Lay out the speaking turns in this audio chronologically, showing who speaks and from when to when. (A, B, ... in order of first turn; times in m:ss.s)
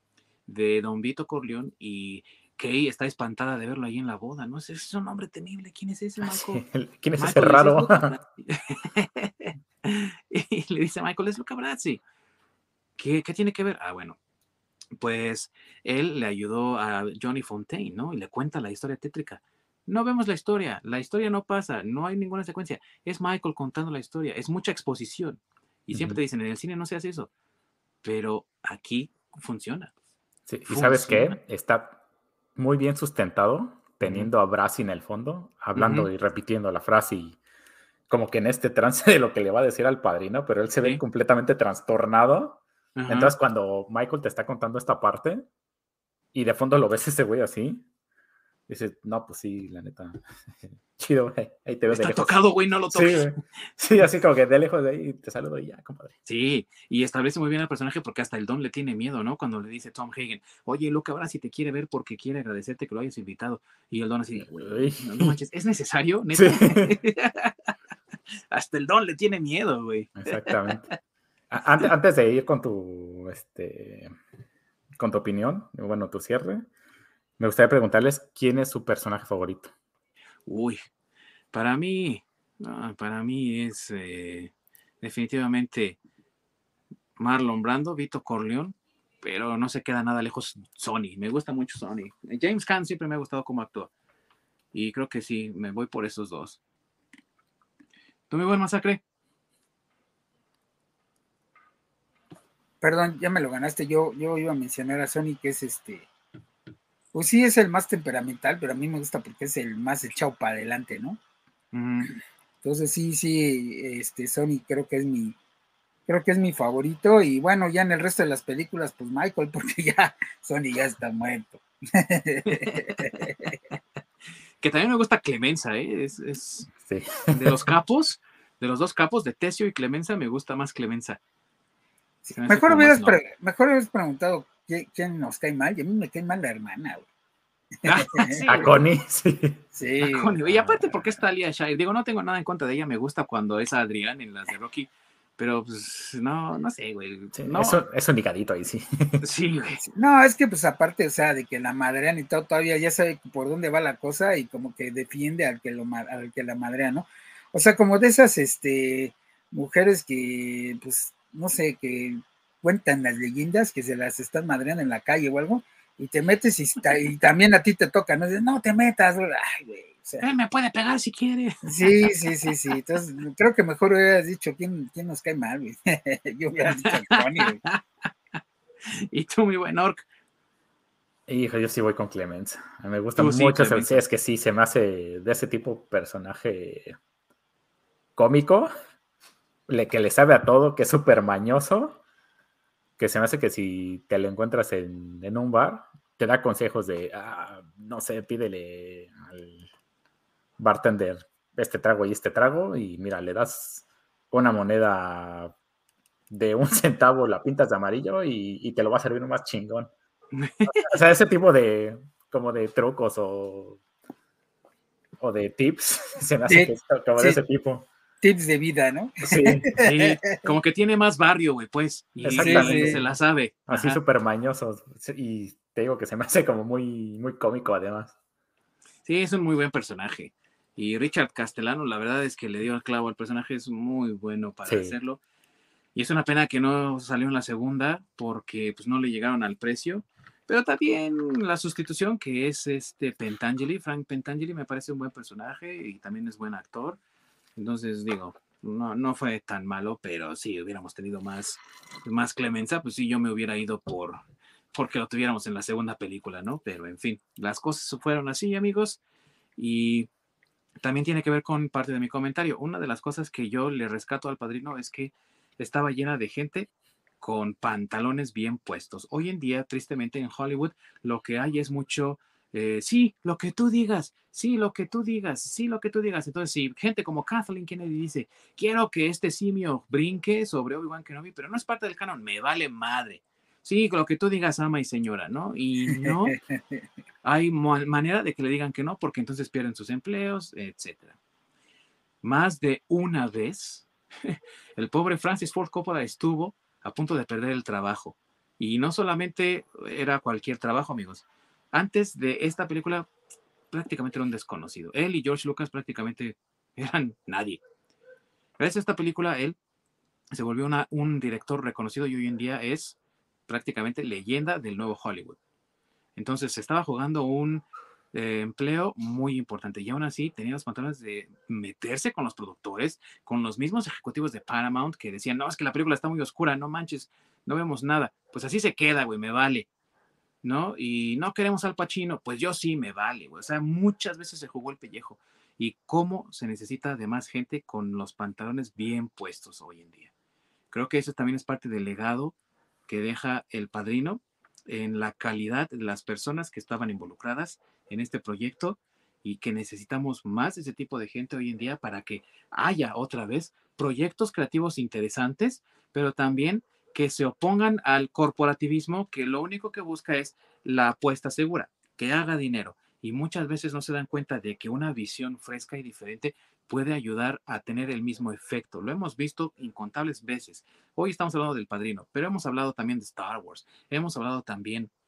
0:00.5-0:06.6 A
0:06.2-0:08.2 B
0:07.2-0:12.0 A
0:13.0-0:14.2 A
0:15.0-0:27.3 A
0:25.9-0:26.2 B
0:28.0-0:29.9 A
0:30.5-0:32.0 B
0:30.7-0:31.4 A
0:32.6-0:37.4 B
0:34.0-0:34.3 A
0:35.7-0:36.1 A
0:38.1-0:45.4 B
0:43.0-0:43.3 A
0:46.3-0:47.8 B
0:48.7-0:52.4 B
0:51.9-0:53.4 A
0:52.9-0:56.1 B
0:56.2-1:07.7 A
1:04.4-1:05.4 B
1:06.3-1:07.0 B
1:08.5-1:10.9 A
1:10.2-1:10.8 B
1:11.5-1:14.1 B
1:15.0-1:16.6 B
1:17.4-1:19.7 B
1:20.4-1:20.8 A
1:21.5-1:26.0 A
1:27.2-1:33.9 A
1:34.7-1:36.6 A
1:38.3-1:39.0 A
1:42.8-1:46.1 C
1:47.1-1:51.2 C
1:51.7-1:52.1 A
1:52.6-1:55.4 C
1:56.1-2:03.5 C
2:02.5-2:03.5 A
2:04.6-2:06.7 A
2:06.8-2:07.6 B
2:07.3-2:11.2 A
2:12.3-2:17.1 C
2:12.3-2:13.2 A
2:17.8-2:18.7 C
2:17.8-2:18.7 A
2:18.5-2:19.6 B
2:19.7-2:20.4 C
2:20.0-2:27.8 A
2:20.5-2:21.1 B
2:27.4-2:29.2 B
2:29.2-2:29.8 A
2:29.8-2:50.3 C
2:50.2-2:52.0 A
2:51.6-2:57.6 C
2:56.8-2:57.8 A
2:58.9-3:00.0 A
3:01.3-3:07.0 B
3:03.2-3:04.0 A
3:08.2-3:08.7 B
3:09.7-3:12.0 B
3:13.0-3:19.6 B
3:20.6-3:25.5 B
3:26.3-3:29.9 B
3:30.3-3:30.9 A
3:30.7-3:33.8 B
3:35.2-3:37.9 B
3:36.5-3:37.4 C
3:38.2-3:40.4 C
3:39.2-3:39.7 B
3:39.8-3:44.0 A
3:42.2-3:43.1 B
3:42.4-3:43.0 C
3:43.7-3:48.1 B
3:49.0-3:55.2 A
3:54.7-3:55.0 B
3:55.9-4:07.0 A
4:07.6-4:14.2 A
4:14.7-4:19.0 A
4:19.6-4:20.1 A
4:20.8-4:26.7 A
4:27.2-4:46.4 A
4:45.9-4:46.8 C
4:47.2-4:51.2 A
4:52.2-5:03.1 A
5:03.7-5:07.6 A
5:08.6-5:09.6 A
5:10.3-5:13.0 A
5:13.5-5:15.4 A
5:16.2-5:29.7 A
5:30.4-5:40.1 A
5:40.7-5:42.3 A
5:42.9-6:14.9 A